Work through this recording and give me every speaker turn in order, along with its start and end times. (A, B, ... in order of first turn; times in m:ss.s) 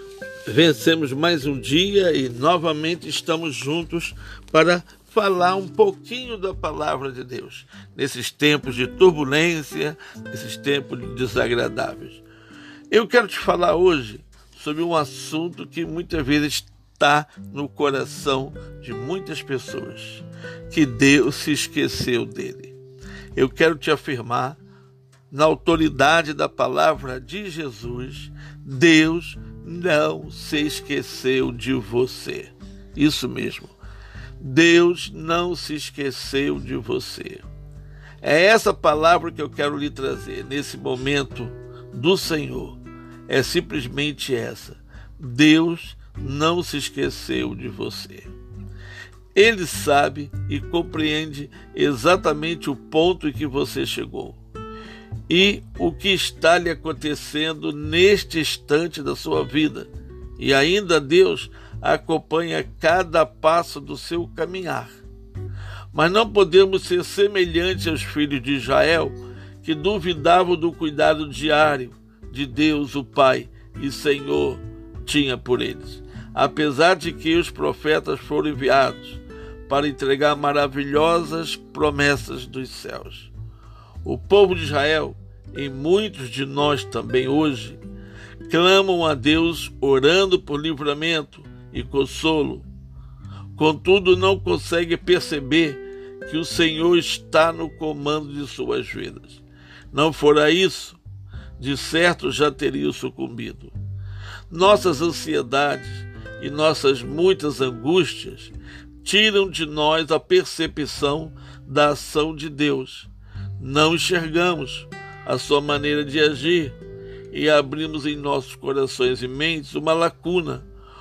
0:00.5-0:12.2 A
0:12.9-0:22.8 A
0:23.4-0:24.6 A
0:25.3-0:33.8 A
0:34.4-0:37.5 A
0:38.2-0:48.3 A
0:49.3-0:54.4 A
0:55.3-1:05.0 A
1:05.9-1:23.3 A
1:24.0-1:27.8 A
1:28.5-1:32.7 A
1:33.6-1:41.0 A
1:41.6-1:43.7 A
1:44.5-1:56.8 A
1:57.3-2:00.7 A